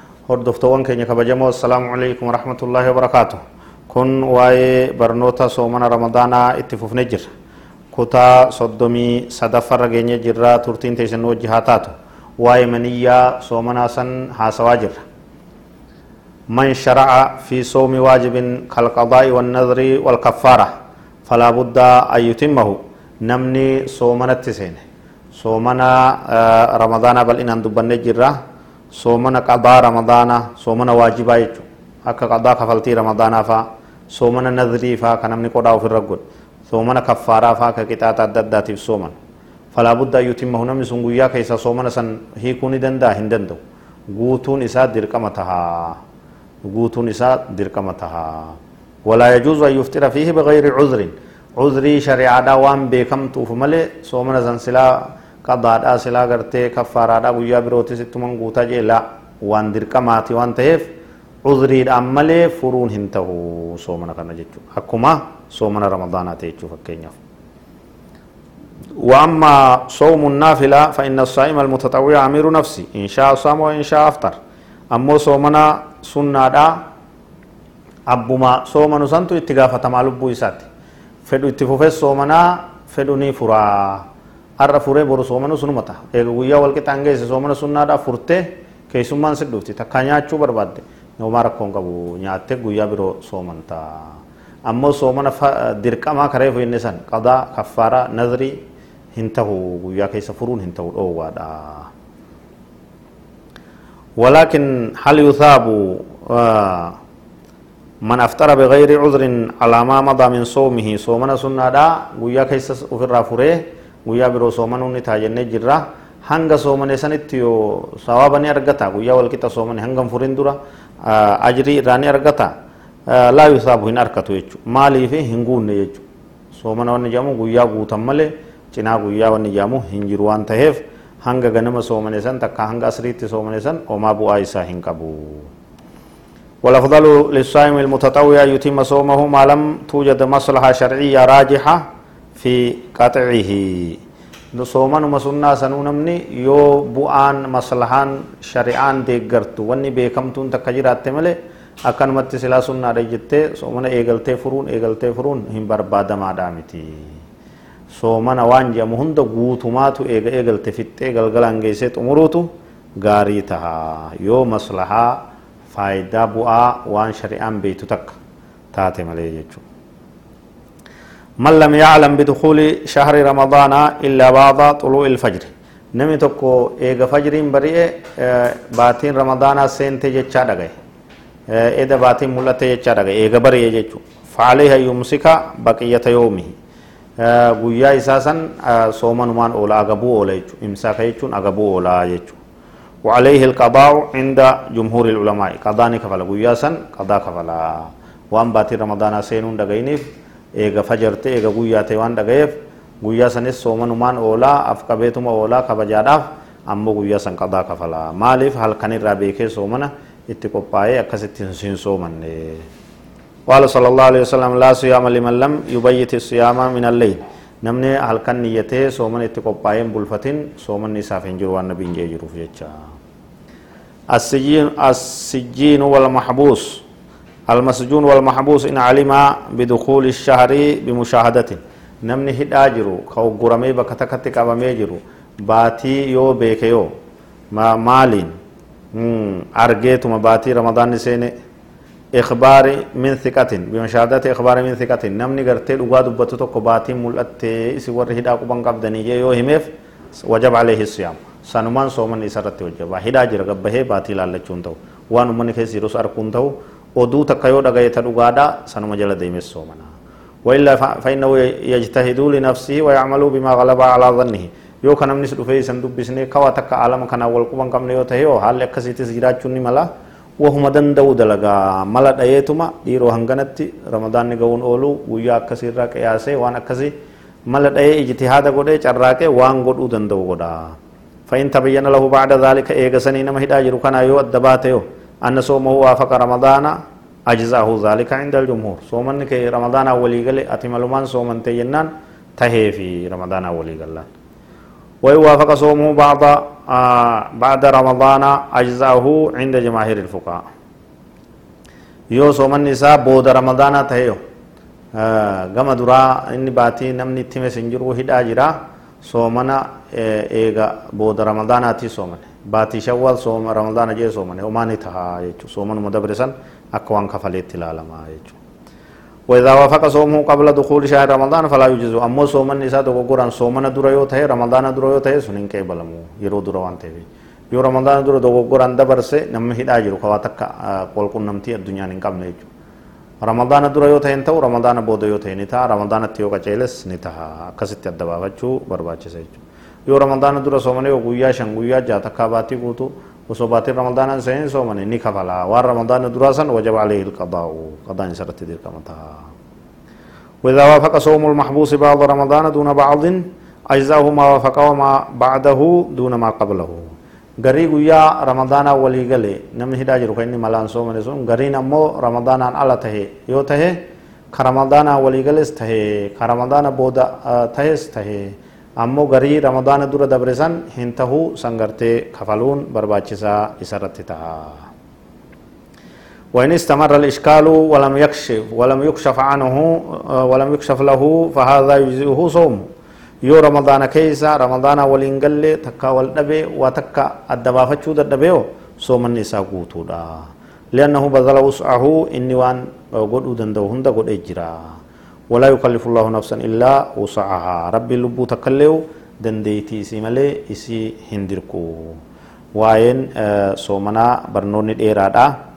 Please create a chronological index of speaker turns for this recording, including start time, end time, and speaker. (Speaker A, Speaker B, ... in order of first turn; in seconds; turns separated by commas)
Speaker A: 0.3-7.3, Speaker A: 7.9-15.0, Speaker A: 16.5-20.7, Speaker A: 21.3-24.8, Speaker A: 25.4-28.4, Speaker A: 28.9-39.2, Speaker A: 39.7-46.0, Speaker A: 46.6-60.9, Speaker A: 61.4-67.2, Speaker A: 69.0-74.4, Speaker A: 74.9-76.8, Speaker A: 78.1-80.7, Speaker A: 81.3-84.1, Speaker A: 84.6-98.6, Speaker A: 99.1-101.9, Speaker A: 104.2-107.0, Speaker A: 108.0-122.5, Speaker A: 123.1-135.5, Speaker A: 136.6-141.8, Speaker A: 142.4-144.0, Speaker A: 144.5-157.2, Speaker A: 157.9-168.2, Speaker A: 168.7-169.6, Speaker A: 171.4-180.7, Speaker A: 181.5-186.5, Speaker A: 187.2-192.4, Speaker A: 193.0-212.7, Speaker A: 213.5-222.7, Speaker A: 224.1-226.8, Speaker A: 227.5-236.9, Speaker A: 237.5-238.3, Speaker A: 238.9-241.3, Speaker A: 242.1-259.9, Speaker A: 260.4-276.9, Speaker A: 277.5-280.8, Speaker A: 281.3-294.1, Speaker A: 295.0-300.4, Speaker A: 302.1-304.2, Speaker A: 304.9-318.4, Speaker A: 319.3-332.5, Speaker A: 333.2-349.3, Speaker A: 350.4-374.7, Speaker A: 376.3-382.7, Speaker A: 383.2-394.8, Speaker A: 395.3-402.0, Speaker A: 402.6-405.4